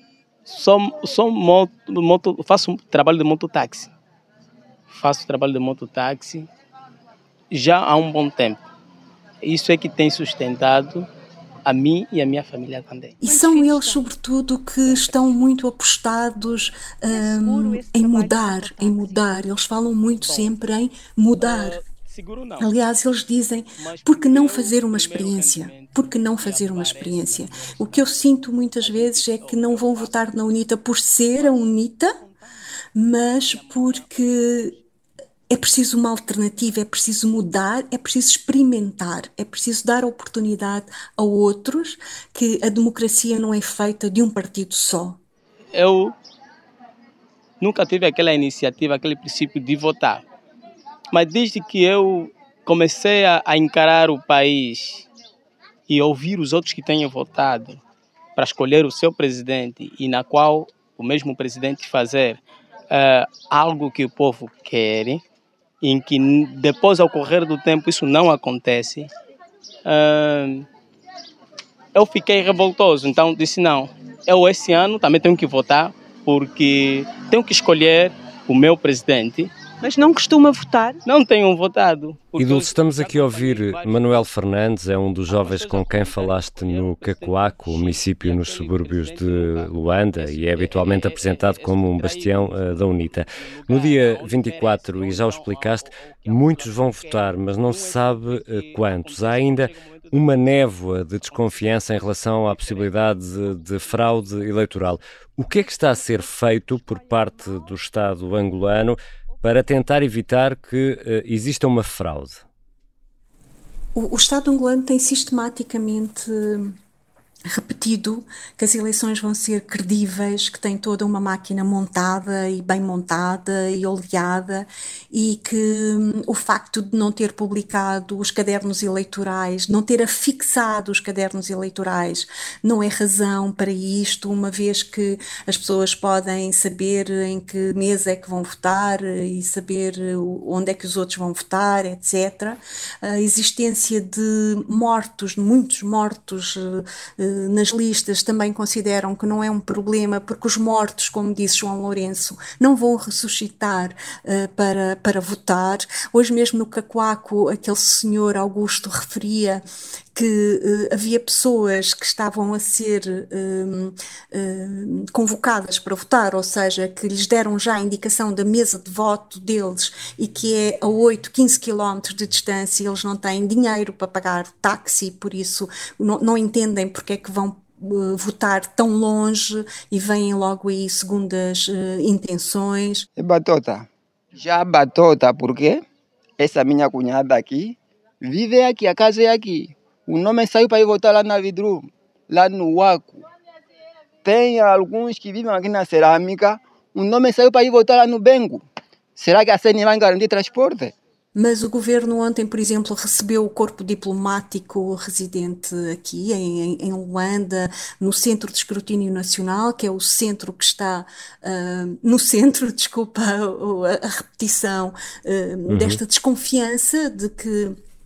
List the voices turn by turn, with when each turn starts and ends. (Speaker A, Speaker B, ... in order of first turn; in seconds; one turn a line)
Speaker A: 0.5-3.9
Speaker A: 4.9-6.5
Speaker A: 7.5-8.6
Speaker A: 9.4-11.1
Speaker A: 11.7-13.2
Speaker B: 13.2-21.8
Speaker C: 13.2-14.0
Speaker A: 14.9-15.2
Speaker C: 17.1-19.4
Speaker A: 20.2-20.5
Speaker A: 21.4-22.7
Speaker B: 22.6-32.2
Speaker A: 23.8-30.2
Speaker A: 31.4-31.6
Speaker A: 32.2-32.5
Speaker B: 33.0-34.8
Speaker A: 33.4-34.8
Speaker B: 35.5-45.2
Speaker A: 45.7-46.1
Speaker A: 47.6-50.2
Speaker A: 51.1-55.1
Speaker A: 55.9-57.8
Speaker A: 58.4-65.2
Speaker A: 65.8-69.1
Speaker A: 69.8-70.7
Speaker A: 72.0-79.5
Speaker C: 79.8-81.0
Speaker A: 81.0-84.3
Speaker D: 82.4-112.4
Speaker A: 85.3-100.6
Speaker A: 101.2-104.3
Speaker B: 114.0-116.8
Speaker B: 117.5-159.6
Speaker B: 160.2-183.1
Speaker E: 183.2-185.8
Speaker E: 186.4-193.2
Speaker E: 194.2-198.7
Speaker E: 199.2-200.9
Speaker B: 201.3-217.8
Speaker D: 215.7-216.0